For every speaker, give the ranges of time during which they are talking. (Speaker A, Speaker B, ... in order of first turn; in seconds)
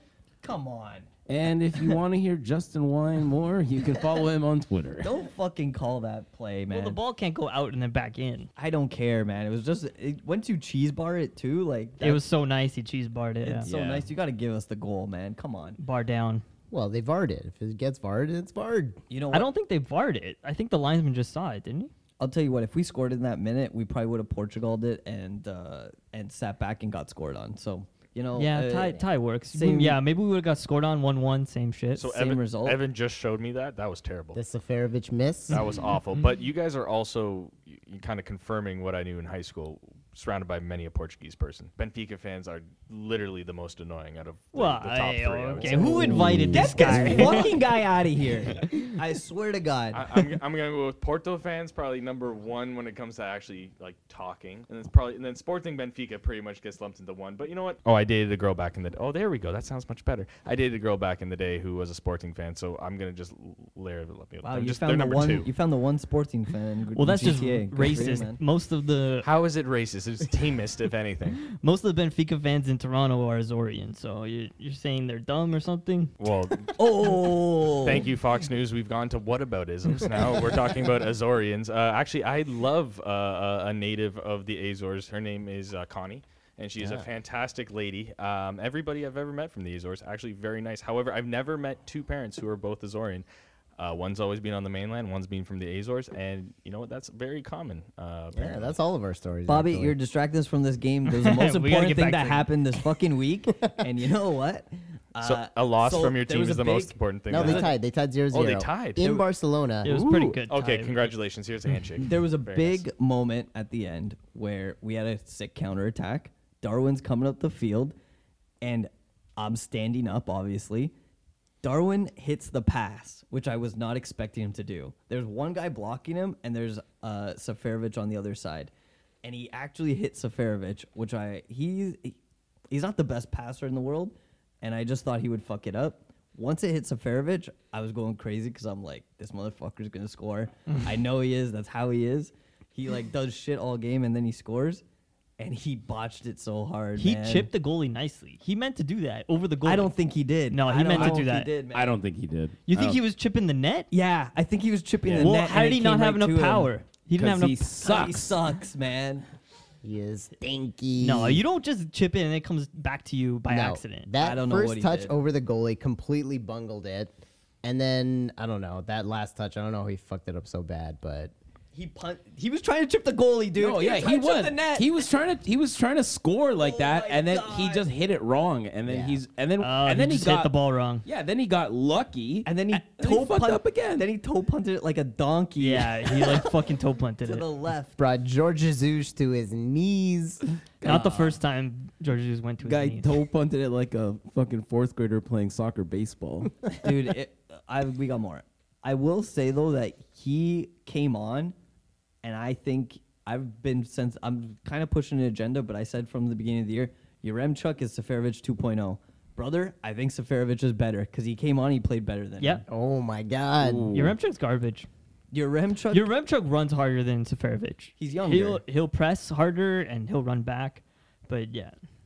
Speaker A: 0.4-1.1, 5.0-7.0, 8.6-12.2, 13.4-15.8, 19.1-19.5, 22.2-30.0, 32.0-32.8, 45.6-50.1, 64.4-68.4, 76.8-78.1, 99.5-107.7, 112.0-118.0, 118.6-120.9, 121.6-128.7, 129.2-132.2, 132.7-144.8, 145.4-147.5, 149.6-151.9, 153.9-156.7, 157.8-159.3, 164.2-165.2, 171.7-174.9, 176.6-177.9, 182.5-186.5, 187.2-188.0, 190.8-191.4, 196.8-201.6, 202.2-212.6, 215.3-216.1, 218.0-218.6
Speaker B: 1.3-5.1, 13.7-14.1, 46.2-46.6, 150.9-153.0, 155.1-155.4, 157.2-158.4, 173.6-184.1, 190.8-191.2, 192.6-196.7, 213.6-214.2
Speaker C: 6.7-8.5, 12.0-13.7, 15.8-16.4, 19.3-21.9, 28.4-32.1, 44.5-47.6, 67.0-69.3, 71.4-76.1, 101.1-102.5, 109.8-111.1, 147.0-149.9, 150.5-151.5, 152.7-153.9, 155.2-157.9, 161.0-164.1, 179.6-181.1, 185.6-187.5, 190.8-193.1, 213.9-214.9, 215.9-221.8
Speaker D: 16.7-19.0, 34.3-35.6, 45.9-47.4, 86.8-87.1, 98.3-100.0, 107.3-110.3, 159.8-161.4, 163.5-171.3, 178.8-179.2, 188.0-190.4, 212.7-213.9
Speaker E: 32.0-34.4, 35.5-45.9, 49.9-65.5, 69.2-71.4, 76.2-77.2, 77.8-93.2, 93.8-98.8, 105.2-107.7, 108.3-109.1, 110.5-112.8